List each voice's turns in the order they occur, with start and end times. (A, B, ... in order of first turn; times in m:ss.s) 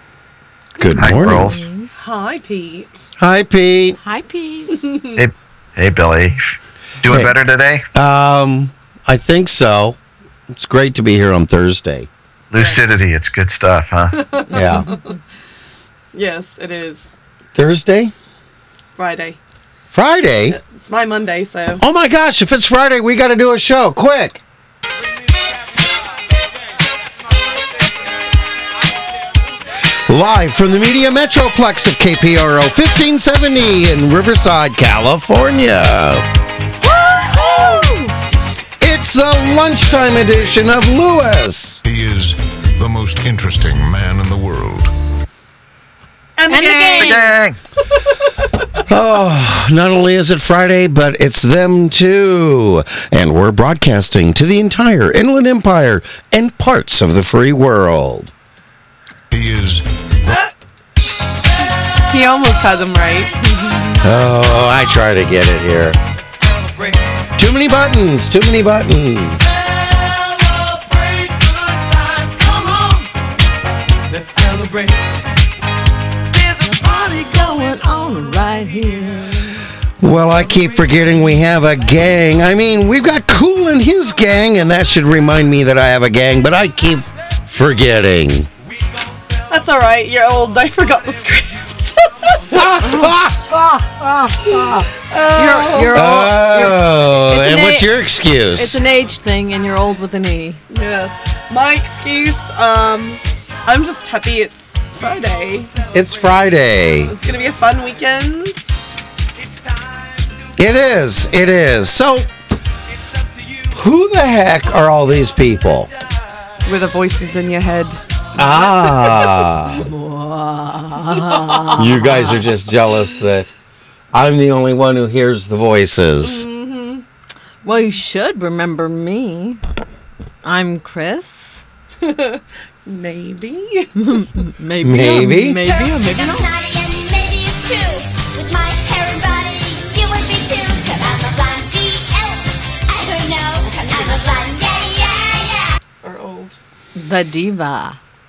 0:00.8-0:01.6 A
0:01.0-0:01.6 B
0:01.4-0:01.9 C
0:02.0-0:03.1 D
0:03.2-0:04.0 A
0:04.0-0:04.9 C
0:04.8-0:05.2 D
0:05.1-0:07.8 B
0:07.0-0:07.3 A
0:07.9-0:10.0 A
0:10.5-0:12.1 A
0:12.5-0:14.2 B
0:12.5-0:12.8 D
0:14.1-0:15.1 D
0:14.5-0:14.9 A
0:14.6-0:15.0 C
0:16.1-0:17.1 D
0:17.5-0:18.1 A
0:19.0-0:19.4 D
0:19.9-0:20.6 A
0:20.5-0:21.8 D
0:21.8-0:24.4 A
0:30.0-0:36.2 A
0:36.8-0:38.1 C
0:38.8-0:41.8 A
0:41.8-0:44.9 E
0:46.4-0:47.2 D
0:46.5-0:47.3 C
0:47.0-0:47.6 B
0:48.9-0:58.3 A
0:59.3-1:00.4 E
1:02.0-1:03.7 D
1:04.0-1:06.0 A
1:07.4-1:09.4 A
1:12.4-1:12.7 D
1:14.2-1:14.9 D
1:16.5-1:19.7 C
1:20.0-1:28.5 A
1:29.5-1:32.6 D
1:32.5-1:34.8 A
1:32.8-1:33.6 C
1:34.6-1:37.9 C
1:35.0-1:36.1 D
1:35.9-1:38.8 A
1:38.5-1:40.6 C
1:40.7-1:45.8 D
1:45.9-1:47.1 A
1:47.0-1:49.0 D
1:50.6-1:52.3 A
1:53.7-1:55.9 A
1:56.6-1:59.4 D
1:58.4-1:59.9 A
1:59.7-2:02.4 C
2:01.7-2:03.5 A
2:04.1-2:06.4 A
2:06.2-2:07.0 D
2:07.6-2:09.6 C
2:10.4-2:11.6 C
2:12.0-2:14.0 D
2:14.0-2:16.5 C
2:14.8-2:15.6 A
2:15.6-2:25.8 F
2:26.0-2:26.6 D
2:26.9-2:28.0 C